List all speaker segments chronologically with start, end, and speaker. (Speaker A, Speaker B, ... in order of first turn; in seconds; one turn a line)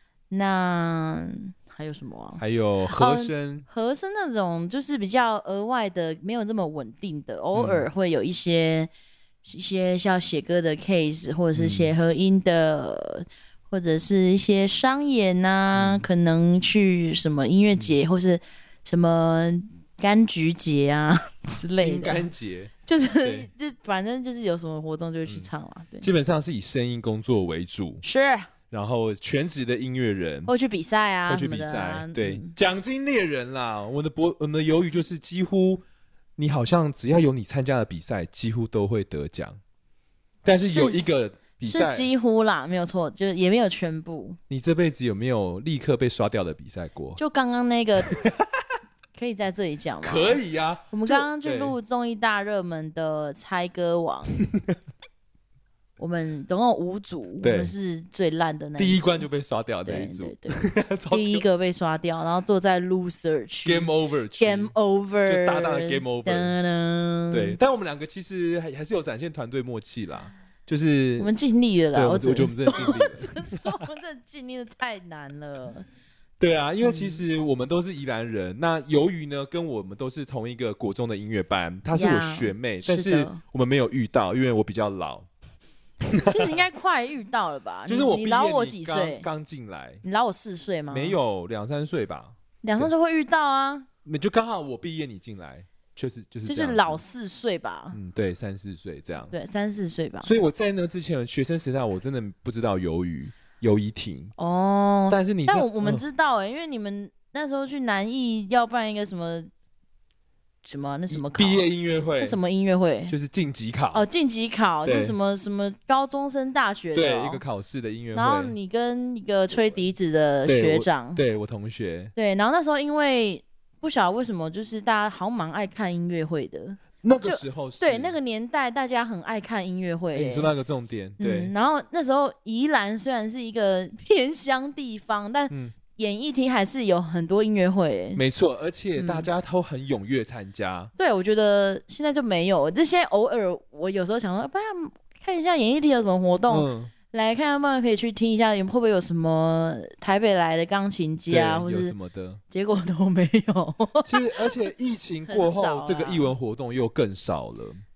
Speaker A: 0.3-8.9
Speaker B: 2.4-3.6
Speaker B: 7.5-7.9
Speaker A: 9.4-22.3
Speaker B: 11.5-11.9
Speaker B: 15.7-16.1
Speaker B: 21.8-23.5
Speaker A: 22.9-26.1
Speaker B: 26.0-28.0
Speaker A: 28.0-28.5
Speaker B: 28.7-30.5
Speaker A: 30.4-32.5
Speaker B: 31.3-35.8
Speaker B: 36.4-39.6
Speaker B: 40.4-42.1
Speaker A: 40.5-41.1
Speaker A: 41.6-44.4
Speaker B: 44.5-47.2
Speaker A: 47.2-48.1
Speaker B: 48.1-48.5
Speaker A: 49.1-54.4
Speaker B: 50.0-51.8
Speaker A: 56.0-59.3
Speaker B: 57.4-57.7
Speaker B: 58.8-61.4
Speaker A: 59.9-67.6
Speaker B: 63.6-64.7
Speaker B: 65.2-66.5
Speaker B: 67.3-71.3
Speaker A: 71.2-75.9
Speaker B: 71.9-73.7
Speaker B: 76.4-85.3
Speaker A: 76.8-77.2
Speaker A: 81.9-83.4
Speaker B: 86.1-86.6
Speaker A: 86.2-89.2
Speaker B: 87.9-90.0
Speaker A: 90.0-91.2
Speaker B: 90.9-92.9
Speaker A: 92.6-93.9
Speaker B: 94.0-97.0
Speaker A: 96.4-98.0
Speaker B: 97.9-99.3
Speaker A: 99.3-100.3
Speaker B: 100.2-104.3
Speaker A: 104.4-109.5
Speaker B: 105.1-106.0
Speaker A: 110.6-111.7
Speaker B: 111.1-112.4
Speaker A: 112.2-113.1
Speaker B: 113.1-114.0
Speaker A: 113.9-117.4
Speaker B: 114.8-115.2
Speaker B: 116.9-118.5
Speaker A: 118.1-121.2
Speaker B: 120.4-122.1
Speaker A: 122.2-130.5
Speaker B: 127.0-128.1
Speaker B: 130.1-131.5
Speaker A: 131.2-138.2
Speaker B: 135.5-135.8
Speaker B: 138.2-140.9
Speaker A: 139.0-139.3
Speaker A: 141.0-151.9
Speaker B: 146.5-146.9
Speaker B: 151.3-152.4
Speaker A: 152.5-154.5
Speaker B: 154.0-157.8
Speaker A: 155.3-156.3